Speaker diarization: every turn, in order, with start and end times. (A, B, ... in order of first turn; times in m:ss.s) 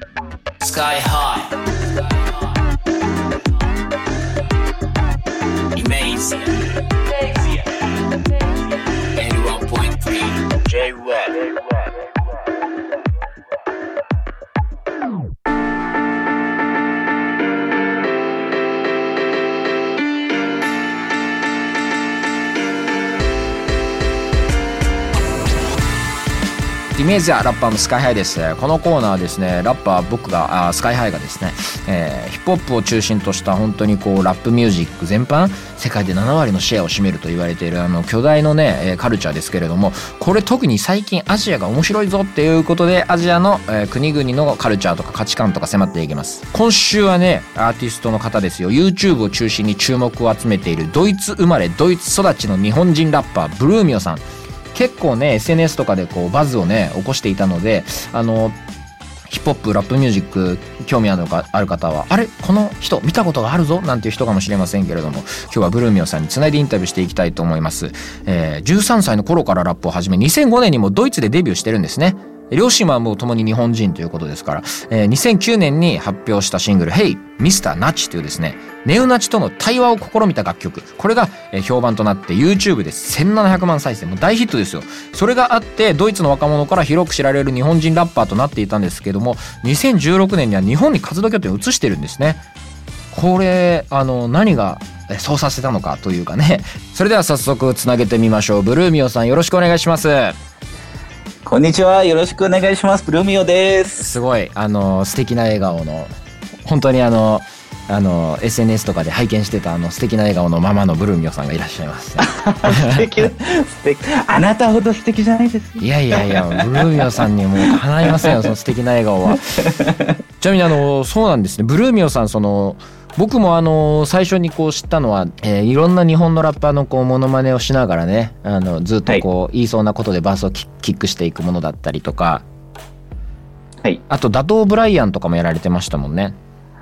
0:00.6-0:01.5 A
0:05.7-0:07.7 A
0:09.2-0:11.4 A
0:27.0-0:54.2 B
0:54.7-0:58.6 B
0:59.3-1:32.4 B
1:33.1-1:40.4 B
1:41.4-1:44.2 C
1:44.0-1:46.1 B
1:46.6-1:53.1 B
1:52.2-1:58.4 C
1:55.8-1:59.5 B
1:59.6-2:00.2 C
2:00.4-2:12.4 B
2:14.1-2:16.4 B